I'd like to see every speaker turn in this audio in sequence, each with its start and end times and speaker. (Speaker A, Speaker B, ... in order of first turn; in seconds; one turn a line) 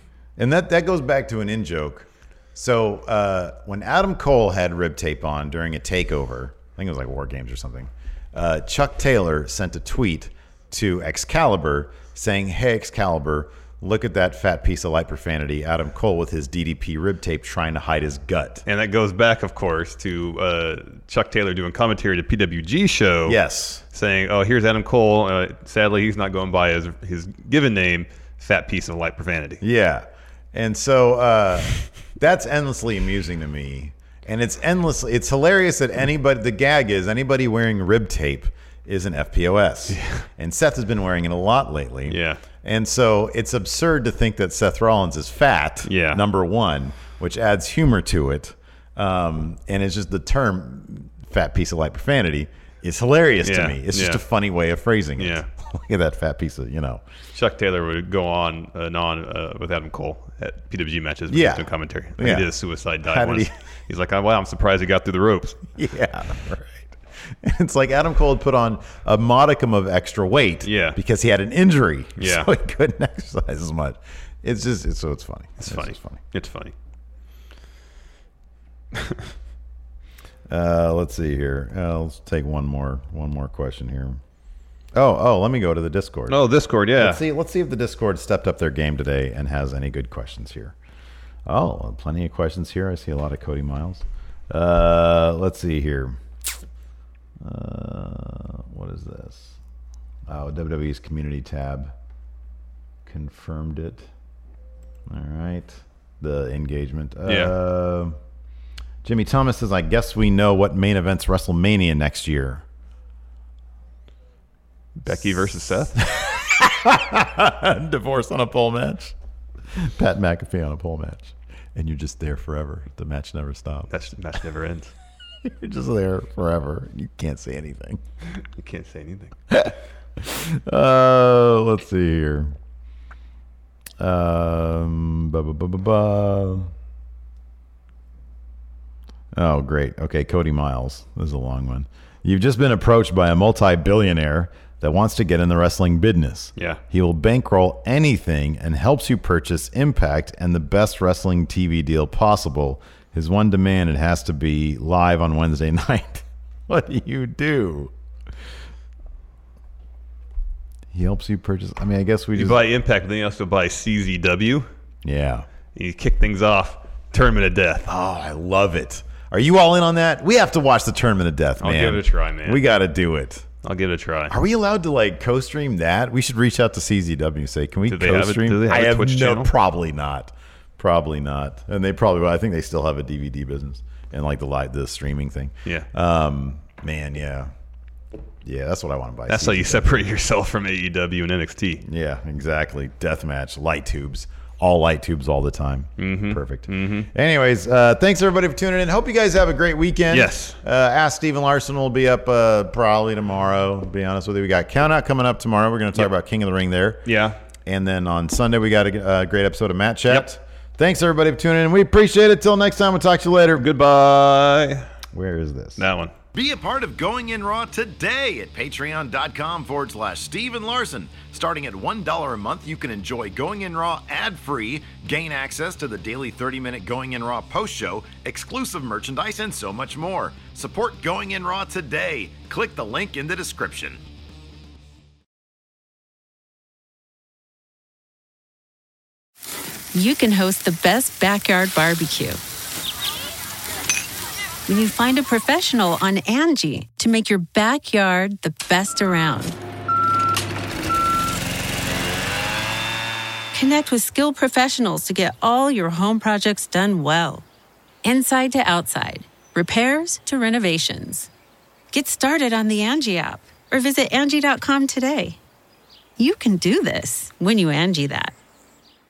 Speaker A: 0.4-18.7
Speaker B: 18.7-23.4
Speaker A: 23.3-23.8
Speaker B: 23.9-29.6
Speaker A: 29.6-57.0
Speaker B: 39.9-40.2
Speaker B: 42.1-42.4
Speaker B: 45.9-46.2
Speaker B: 53.4-54.2
Speaker B: 55.2-55.5
Speaker B: 57.3-65.6
Speaker A: 61.3-62.5
Speaker A: 63.0-63.5
Speaker A: 65.8-76.2
Speaker B: 70.6-71.0
Speaker B: 72.2-72.5
Speaker B: 75.6-76.7
Speaker A: 80.5-84.2
Speaker A: 85.0-86.4
Speaker B: 86.3-87.2
Speaker A: 87.0-90.8
Speaker A: 91.5-96.2
Speaker A: 97.4-99.6
Speaker A: 100.3-101.9
Speaker A: 103.1-104.1
Speaker A: 105.1-108.2
Speaker B: 107.3-107.5
Speaker A: 109.0-112.7
Speaker B: 115.0-116.0
Speaker A: 116.0-119.2
Speaker A: 119.7-123.9
Speaker B: 123.9-124.9
Speaker A: 125.4-128.0
Speaker B: 128.4-129.4
Speaker A: 129.5-132.6
Speaker A: 134.0-136.7
Speaker A: 139.3-157.9
Speaker A: 160.9-162.6
Speaker B: 162.4-164.7
Speaker A: 165.0-165.5
Speaker B: 165.8-167.9
Speaker A: 167.9-173.5
Speaker B: 171.6-172.6
Speaker B: 173.6-174.4
Speaker A: 174.3-187.5
Speaker B: 177.9-179.5
Speaker A: 188.4-190.0
Speaker B: 189.3-191.8
Speaker A: 191.8-207.1
Speaker B: 196.0-197.1
Speaker B: 200.1-200.6
Speaker B: 207.1-207.4
Speaker A: 207.7-213.7
Speaker B: 213.6-214.9
Speaker A: 215.1-234.0
Speaker B: 215.8-216.1
Speaker C: 239.9-242.4
Speaker C: 244.7-249.6
Speaker C: 253.5-257.4
Speaker C: 258.0-261.3
Speaker C: 261.9-265.4
Speaker C: 266.2-268.3